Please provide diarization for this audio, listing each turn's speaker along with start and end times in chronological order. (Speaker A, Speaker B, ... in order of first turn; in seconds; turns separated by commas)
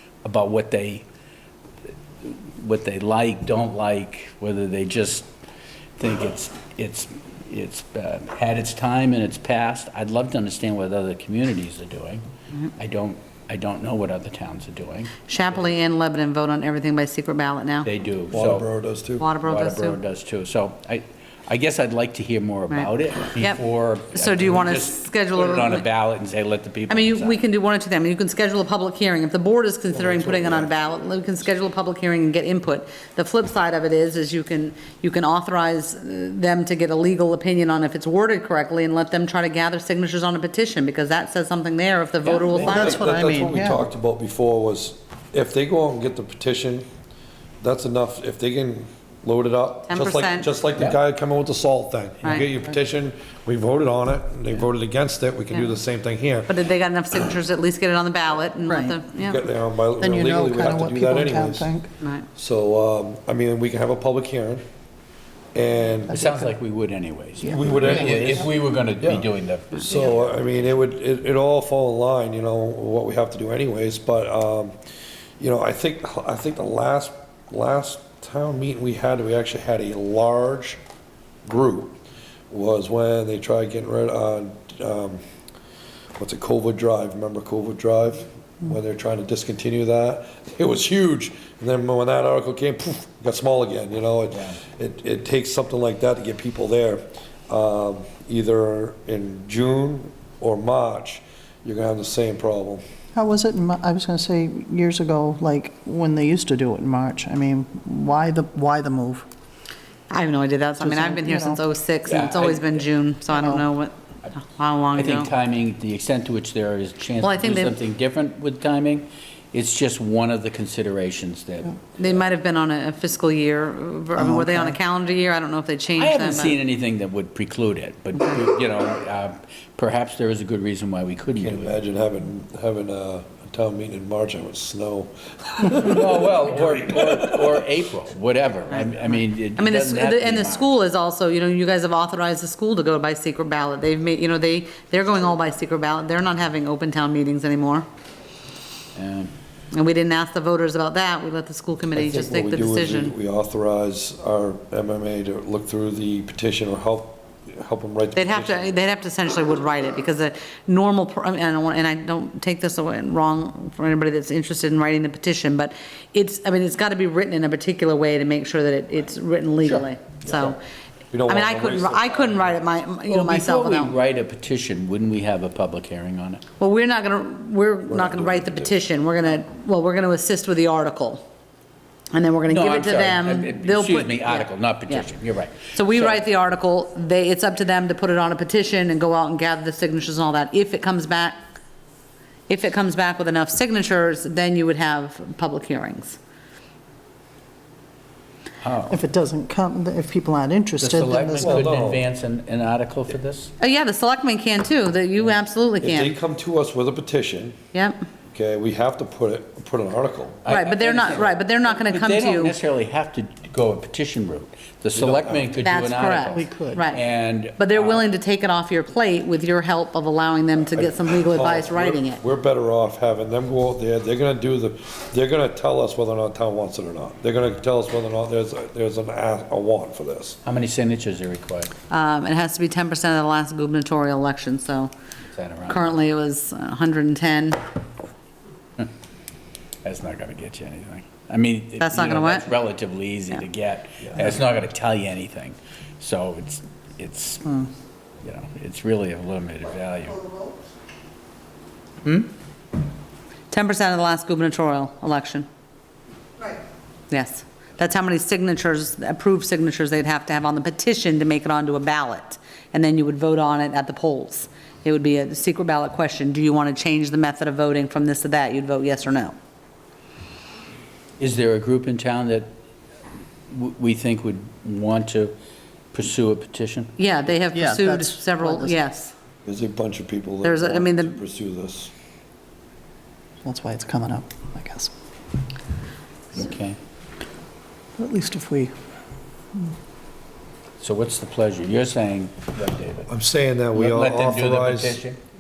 Speaker A: 0.2-1.0, Speaker A: 2.2-5.3, Speaker A: 6.0-12.2, Speaker A: 12.8-15.2, Speaker B: 15.3-17.9, Speaker A: 17.8-18.7, Speaker C: 18.3-19.3, Speaker B: 19.2-20.0, Speaker A: 19.4-27.4, Speaker B: 22.7-23.6, Speaker B: 24.1-25.8, Speaker B: 26.9-43.0, Speaker C: 29.9-30.8, Speaker A: 42.2-42.7, Speaker D: 42.5-43.9, Speaker C: 42.6-46.9, Speaker C: 47.6-56.5, Speaker B: 49.9-50.5, Speaker B: 52.2-52.5, Speaker B: 56.5-59.4, Speaker D: 58.7-59.0, Speaker C: 59.2-61.7, Speaker D: 60.0-61.9, Speaker B: 62.0-62.3, Speaker C: 62.4-64.6, Speaker C: 65.5-66.2, Speaker D: 66.1-66.5, Speaker A: 66.1-70.7, Speaker C: 67.4-68.5, Speaker D: 67.5-68.0, Speaker C: 69.0-69.3, Speaker C: 69.8-74.7, Speaker C: 75.4-80.8, Speaker C: 81.5-82.0, Speaker C: 82.5-85.2, Speaker C: 86.2-102.8, Speaker A: 94.3-94.6, Speaker D: 103.1-109.3, Speaker B: 110.1-115.3, Speaker D: 110.8-111.6, Speaker A: 112.1-112.9, Speaker D: 113.3-113.6, Speaker A: 114.9-121.8, Speaker B: 117.2-117.8, Speaker B: 122.0-126.6, Speaker D: 124.2-124.8, Speaker A: 126.0-131.8, Speaker C: 131.4-137.6, Speaker A: 135.7-140.7, Speaker B: 138.8-147.8, Speaker A: 148.9-149.3, Speaker B: 149.7-153.1, Speaker C: 151.9-158.8, Speaker B: 158.2-170.6, Speaker C: 170.2-170.6, Speaker C: 171.1-172.6, Speaker B: 171.3-173.9, Speaker A: 173.1-176.4, Speaker B: 176.6-181.2, Speaker C: 177.9-178.8, Speaker B: 182.1-185.1, Speaker A: 182.5-186.2, Speaker B: 185.7-191.4, Speaker B: 192.5-196.2, Speaker A: 198.6-199.0, Speaker D: 198.9-201.7, Speaker A: 200.8-203.5, Speaker C: 201.4-202.1, Speaker B: 203.6-206.2, Speaker C: 205.8-207.6, Speaker B: 207.7-208.0, Speaker C: 208.3-210.5, Speaker A: 210.5-218.0, Speaker B: 210.5-212.6, Speaker C: 214.9-215.6, Speaker B: 215.6-217.0, Speaker D: 216.3-216.8, Speaker B: 217.6-222.2, Speaker C: 220.7-230.4, Speaker A: 230.4-231.7, Speaker B: 231.9-234.9, Speaker A: 235.3-235.9, Speaker B: 235.7-237.6, Speaker A: 239.8-247.7, Speaker B: 241.8-242.5, Speaker A: 248.2-250.2, Speaker A: 252.0-252.3, Speaker B: 253.5-255.5, Speaker B: 257.1-269.3, Speaker A: 271.2-272.5, Speaker A: 273.5-275.3, Speaker A: 275.9-276.9, Speaker B: 277.0-279.1, Speaker D: 277.5-278.8, Speaker C: 279.4-281.9, Speaker B: 280.4-281.2, Speaker D: 283.4-284.9, Speaker A: 286.3-286.8, Speaker D: 288.0-288.7, Speaker A: 290.8-293.1, Speaker C: 293.1-295.0, Speaker A: 293.7-295.2